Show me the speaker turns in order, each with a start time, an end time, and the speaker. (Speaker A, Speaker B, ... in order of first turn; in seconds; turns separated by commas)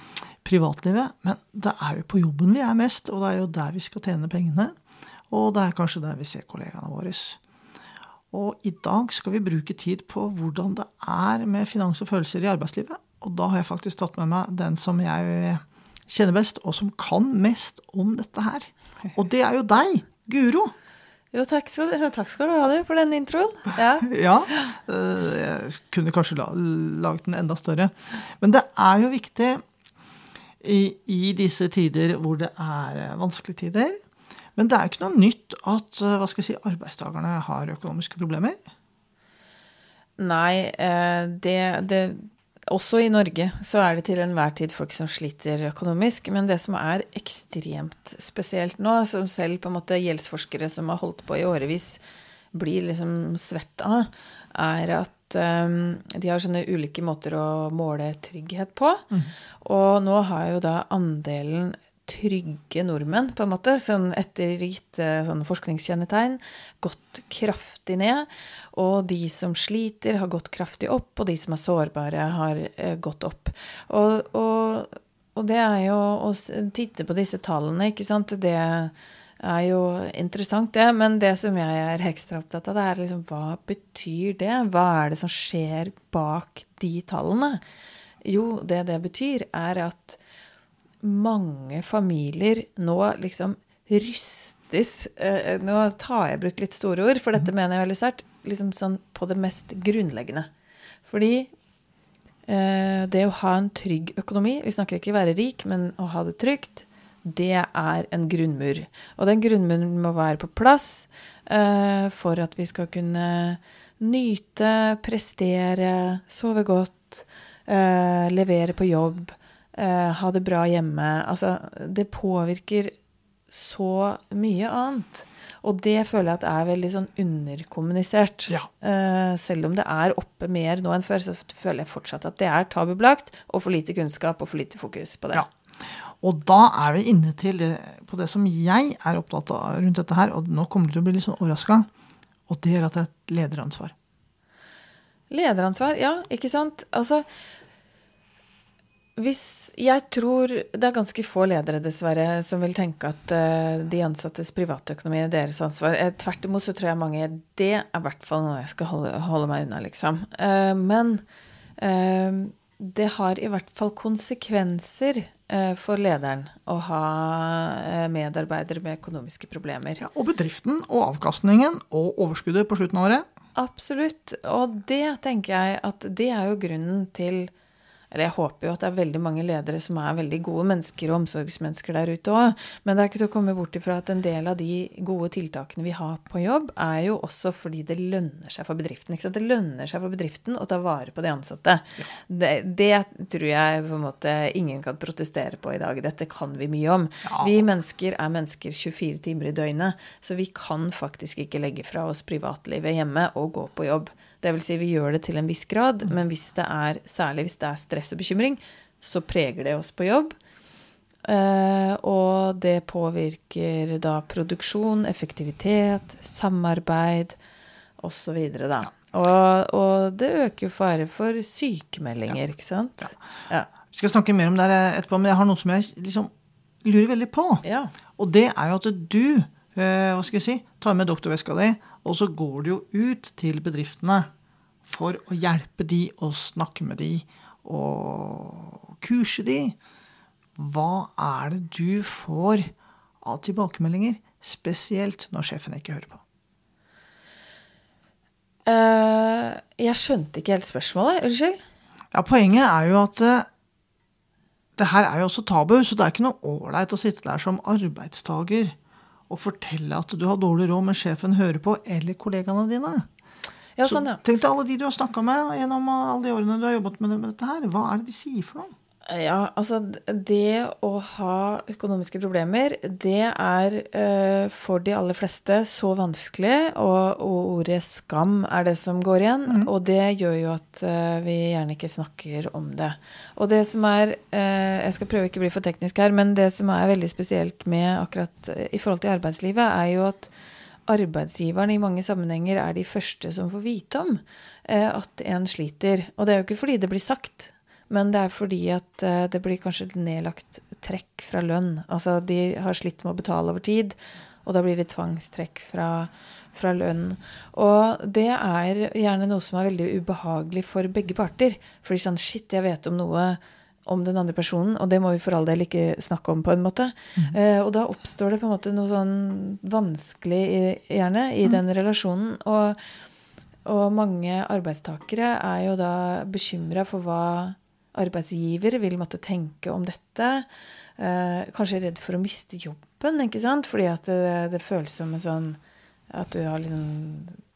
Speaker A: 0.4-4.7, Speaker A: 5.3-7.4, Speaker A: 8.3-20.7, Speaker B: 21.3-24.7, Speaker A: 24.0-29.6, Speaker A: 30.6-34.0, Speaker A: 34.6-38.6, Speaker B: 40.2-52.0, Speaker B: 52.5-59.1, Speaker B: 59.6-87.6, Speaker B: 88.2-90.2, Speaker B: 91.0-100.5, Speaker B: 101.0-101.5, Speaker B: 102.5-122.9, Speaker B: 123.5-135.5, Speaker A: 135.3-141.9, Speaker A: 142.5-143.9, Speaker B: 145.3-147.3, Speaker B: 149.2-161.2, Speaker B: 161.8-170.1, Speaker A: 170.0-173.2, Speaker B: 173.6-177.5, Speaker B: 178.1-210.3, Speaker A: 197.2-197.6, Speaker B: 211.2-217.3, Speaker B: 218.0-223.7, Speaker A: 223.9-226.3, Speaker A: 226.8-227.6, Speaker B: 227.6-227.9, Speaker A: 228.2-234.3, Speaker A: 234.9-239.8, Speaker A: 240.6-246.2, Speaker B: 248.7-251.6, Speaker A: 252.1-253.5, Speaker A: 254.8-258.8, Speaker A: 259.3-263.1, Speaker B: 263.8-264.2, Speaker A: 263.8-268.7, Speaker B: 269.1-290.3, Speaker B: 290.9-322.8, Speaker B: 323.6-330.5, Speaker B: 331.0-335.6, Speaker B: 336.1-337.4